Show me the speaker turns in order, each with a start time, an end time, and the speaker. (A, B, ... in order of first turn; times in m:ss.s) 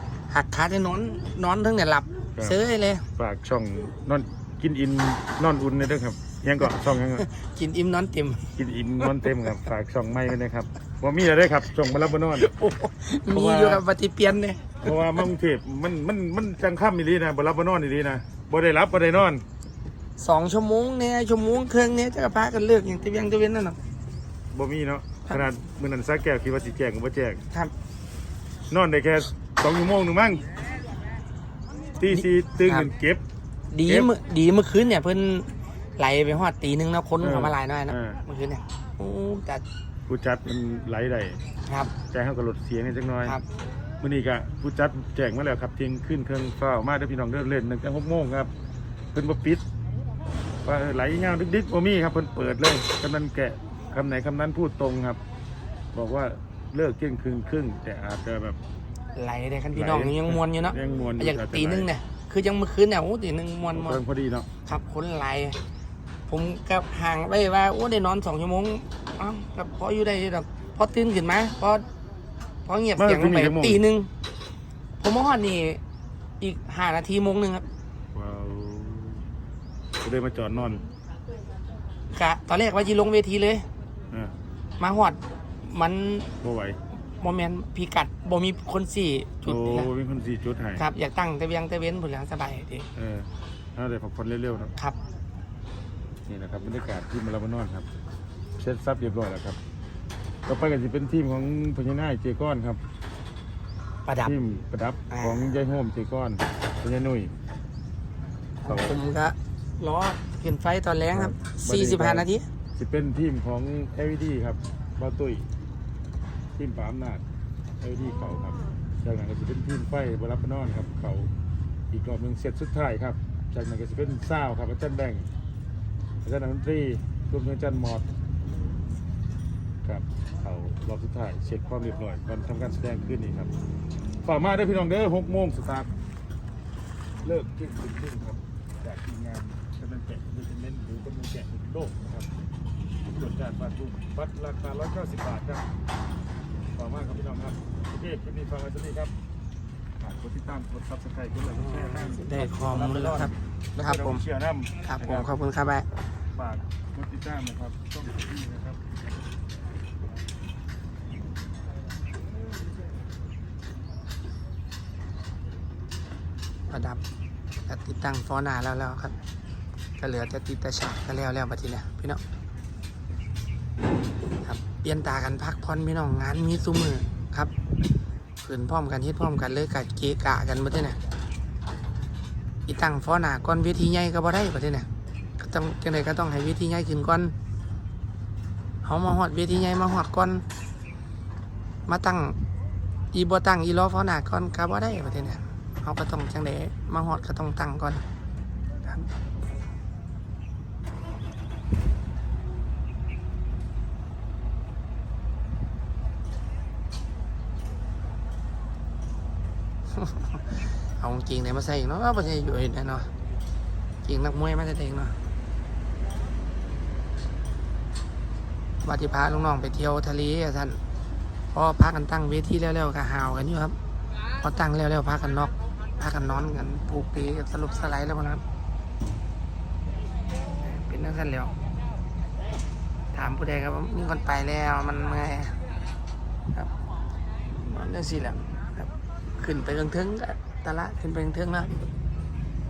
0:00.3-0:03.0 A
0:03.2-0:07.2 B
0:07.2-0:08.5 A
0:08.5-0:12.5 B
0:12.4-0:14.8 A
0:13.3-0:13.8 B
0:14.8-0:19.4 B
0:20.2-0:23.8 A
0:24.5-0:27.4 B
0:28.7-0:30.4 B
0:32.0-0:33.2 B
0:32.1-0:32.9 A
0:33.7-0:39.6 A
0:37.2-0:38.2 B
0:40.1-0:41.4 B
0:41.7-0:41.9 A
0:42.1-0:43.4 B
0:44.0-0:48.5 B
0:49.1-0:49.6 B
0:50.6-0:55.2 B
0:55.9-0:58.6 B
0:59.1-1:04.0 A
0:59.7-1:01.9 B
1:03.7-1:04.5 B
1:04.6-1:05.6 A
1:06.3-1:11.8 A
1:12.6-1:14.1 A
1:13.0-1:13.8 B
1:15.0-1:15.8 A
1:16.4-1:17.6 A
1:18.1-1:19.2 B
1:20.0-1:20.8 B
1:22.1-1:23.7 A
1:24.8-1:26.3 A
1:26.4-1:26.8 B
1:27.1-1:29.9 A
1:29.4-1:30.8 B
1:30.8-1:32.9 A
1:33.0-1:34.7 B
1:36.3-1:37.9 B
1:38.6-1:39.6 B
1:40.4-1:42.8 B
1:44.0-1:44.3 A
1:44.2-1:47.3 B
1:45.1-1:45.4 A
1:48.6-1:52.5 A
1:48.6-1:49.0 B
1:51.1-1:55.5 B
1:56.6-1:57.2 B
1:57.8-2:01.3 B
2:01.9-2:05.3 B
2:06.2-2:08.1 B
2:09.8-2:13.5 B
2:14.2-2:15.9 B
2:17.2-2:22.3 B
2:23.1-2:25.7 B
2:26.7-2:29.1 B
2:30.0-2:35.3 B
2:31.6-2:34.2 A
2:34.8-2:35.9 A
2:36.3-2:38.9 B
2:46.7-2:47.0 A
2:47.6-2:49.2 A
2:50.0-2:52.2 A
2:54.4-2:57.5 A
2:58.4-3:01.0 A
3:02.7-3:04.9 A
3:05.4-3:07.3 A
3:08.8-3:10.4 A
3:11.9-3:12.4 A
3:13.1-3:18.0 A
3:30.0-3:33.1 A
3:34.0-3:35.2 A
3:38.8-3:40.8 A
3:41.5-3:43.8 A
3:44.4-3:48.4 A
3:50.6-3:51.5 A
3:53.1-3:55.6 A
3:57.5-4:01.7 A